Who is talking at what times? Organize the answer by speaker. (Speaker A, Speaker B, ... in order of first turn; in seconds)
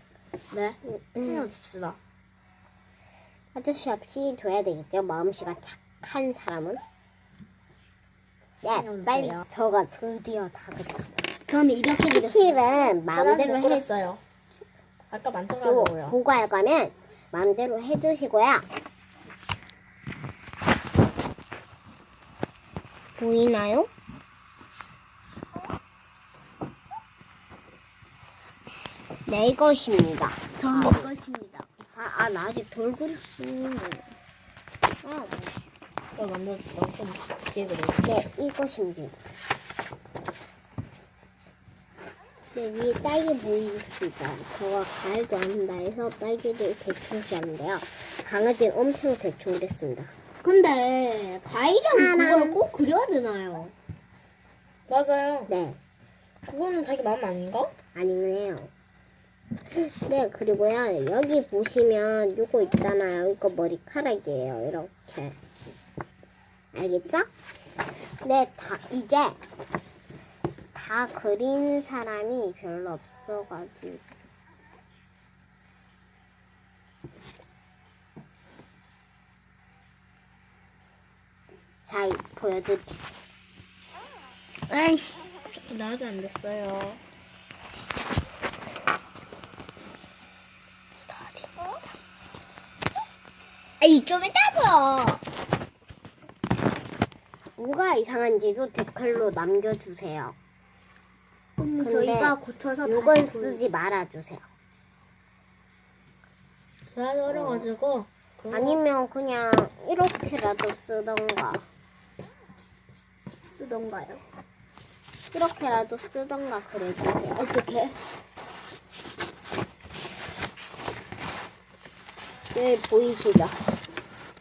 Speaker A: 0.5-2.0, 8.7-9.4, 13.1-14.2, 15.1-16.2, 36.1-38.1, 54.9-55.5, 56.5-57.7, 85.7-87.0, 91.1-91.4, 106.9-108.8
Speaker B: 0.8-1.5, 3.5-6.8, 8.6-11.3, 12.1-13.8, 15.6-18.6, 23.2-23.9, 29.2-31.1, 31.8-34.0, 35.0-35.6, 38.0-39.2, 42.5-50.1, 51.9-52.6, 55.5-55.8, 57.9-58.7, 59.7-65.4, 66.7-67.3, 67.9-69.4, 70.7-74.0, 81.9-82.9, 97.6-100.3, 101.8-104.4, 107.3-107.7, 108.5-111.6, 115.3-117.5, 122.5-123.7
Speaker C: 11.5-12.9, 30.6-31.7, 50.4-53.7, 84.7-85.2, 93.8-95.2, 101.6-103.6, 113.5-114.2, 117.3-118.0